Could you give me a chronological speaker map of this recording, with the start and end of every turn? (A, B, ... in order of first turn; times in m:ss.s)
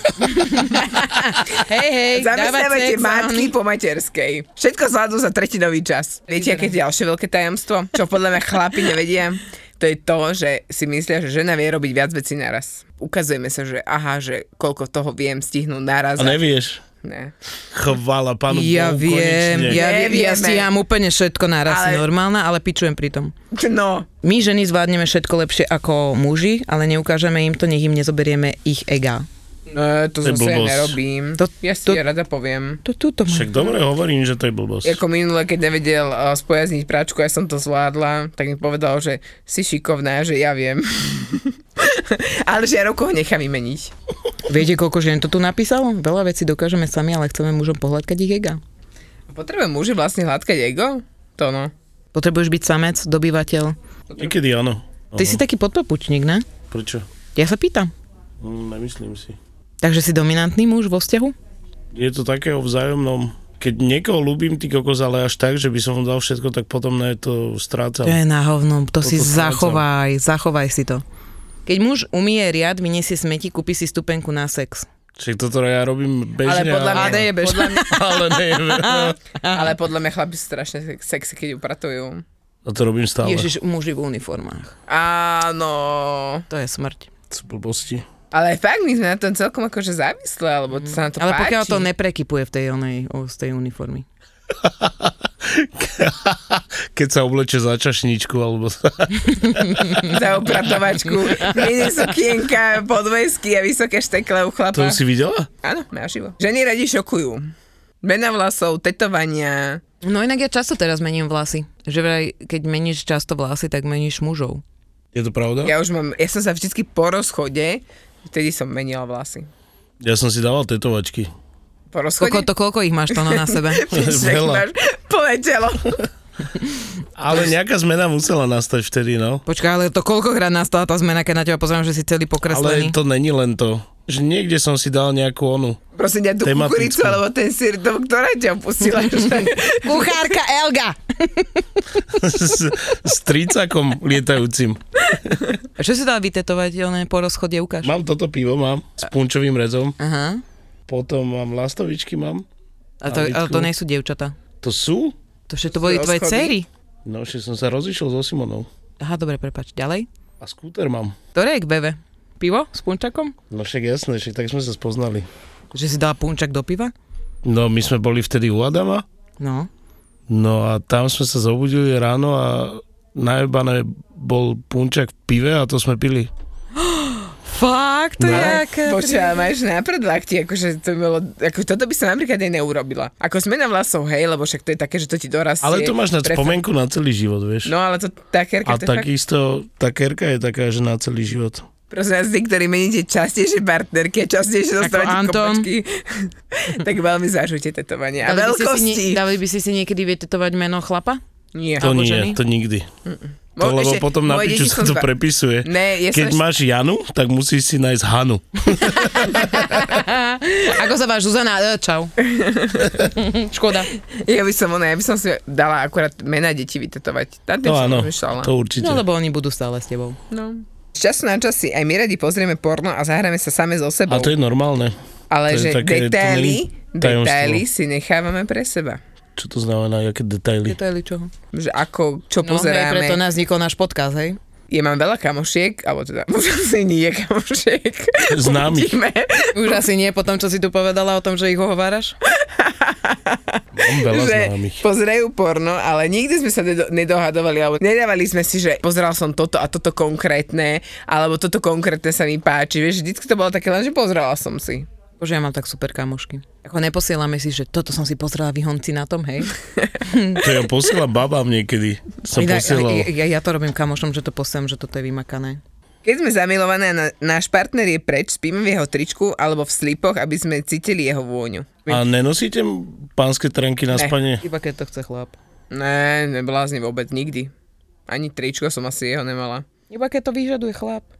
0:00.2-0:03.5 A
0:00.6-0:01.6 B
0:02.1-0:16.4 B
0:06.4-0:06.7 A
0:16.2-0:16.8 C
0:17.0-0:17.3 B
0:17.7-0:19.8 C
0:18.5-0:23.3 A
0:19.7-0:20.7 B
0:21.7-0:22.0 B
0:23.5-0:24.1 B
0:24.2-0:29.2 A
0:29.7-0:32.8 B
0:30.2-0:31.0 C
0:31.4-0:32.0 A
0:32.8-0:33.7 A
0:33.3-0:35.0 C
0:34.8-0:43.9 B
0:44.5-0:48.6 A
0:49.3-0:51.7 B
0:52.1-0:53.7 A
0:54.2-0:55.4 C
0:55.1-0:56.4 A
0:56.7-0:57.0 C
0:57.3-0:57.9 A
0:58.4-0:59.4 C
0:59.8-1:01.3 A
1:01.9-1:08.2 C
1:08.0-1:11.0 A
1:09.0-1:09.8 C
1:11.6-1:14.9 A
1:15.2-1:19.2 C
1:16.4-1:17.8 B
1:16.9-1:19.6 A
1:19.5-1:22.2 B
1:22.6-1:23.5 C
1:23.2-1:24.7 A
1:24.9-1:26.4 B
1:26.5-1:27.1 A
1:27.3-1:28.0 C
1:28.3-1:31.9 B
1:30.8-1:34.0 A
1:34.6-1:40.1 C
1:40.0-1:45.0 B
1:44.7-1:45.5 C
1:45.6-1:47.5 B
1:48.0-1:49.8 B
1:50.0-1:54.6 A
1:55.1-1:55.7 C
1:55.6-1:59.5 B
2:00.0-2:01.3 C
2:01.9-2:02.5 B
2:02.2-2:03.8 A
2:03.1-2:06.0 B
2:03.9-2:04.6 C
2:07.2-2:09.4 C
2:09.4-2:13.0 A
2:12.5-2:15.8 C
2:16.0-2:20.2 B
2:16.4-2:17.2 C
2:19.8-2:22.1 A
2:22.1-2:24.8 C
2:25.8-2:27.9 A
2:27.8-2:30.0 C
2:30.0-2:30.4 A
2:30.9-2:32.4 C
2:33.0-2:34.3 A
2:33.0-2:33.7 C
2:34.6-2:35.1 C
2:35.5-2:36.7 A
2:35.7-2:36.5 B
2:37.0-2:38.7 C
2:39.0-2:40.1 A
2:40.4-2:41.1 C
2:41.3-2:43.4 A
2:43.5-2:45.3 C
2:45.7-2:46.9 A
2:47.4-2:49.0 C
2:49.4-2:49.7 A
2:50.3-2:56.3 C
2:56.8-2:59.5 A
2:58.2-2:58.6 C
2:58.3-3:06.6 B
3:05.6-3:07.7 C
3:07.6-3:09.1 B
3:08.6-3:11.6 C
3:11.9-3:19.2 B
3:14.8-3:15.7 A
3:18.2-3:21.2 A
3:21.5-3:21.8 B
3:21.8-3:22.4 A
3:21.8-3:22.8 C
3:23.1-3:25.1 B
3:23.6-3:29.6 C
3:25.6-3:26.4 B
3:29.1-3:32.1 A
3:32.2-3:32.9 B
3:33.0-3:33.9 A
3:34.1-3:38.5 B
3:37.6-3:39.0 C
3:38.8-3:40.2 A
3:40.3-3:44.3 B
3:44.1-3:44.9 C
3:45.3-3:49.0 B
3:45.5-3:47.6 C
3:49.4-3:50.8 C
3:50.6-3:51.3 A
3:51.5-3:53.2 B
3:52.4-3:54.4 A
3:54.7-3:59.8 B
3:58.3-3:59.0 C
3:59.5-4:02.2 A
4:02.4-4:14.9 B
4:03.8-4:04.8 C
4:15.2-4:19.5 A
4:20.0-4:20.4 A
4:20.4-4:23.1 C
4:22.4-4:25.6 A
4:26.0-4:32.0 B
4:31.9-4:34.4 C
4:34.4-4:35.3 A
4:35.7-4:37.5 B
4:38.1-4:39.6 B
4:39.9-4:41.0 A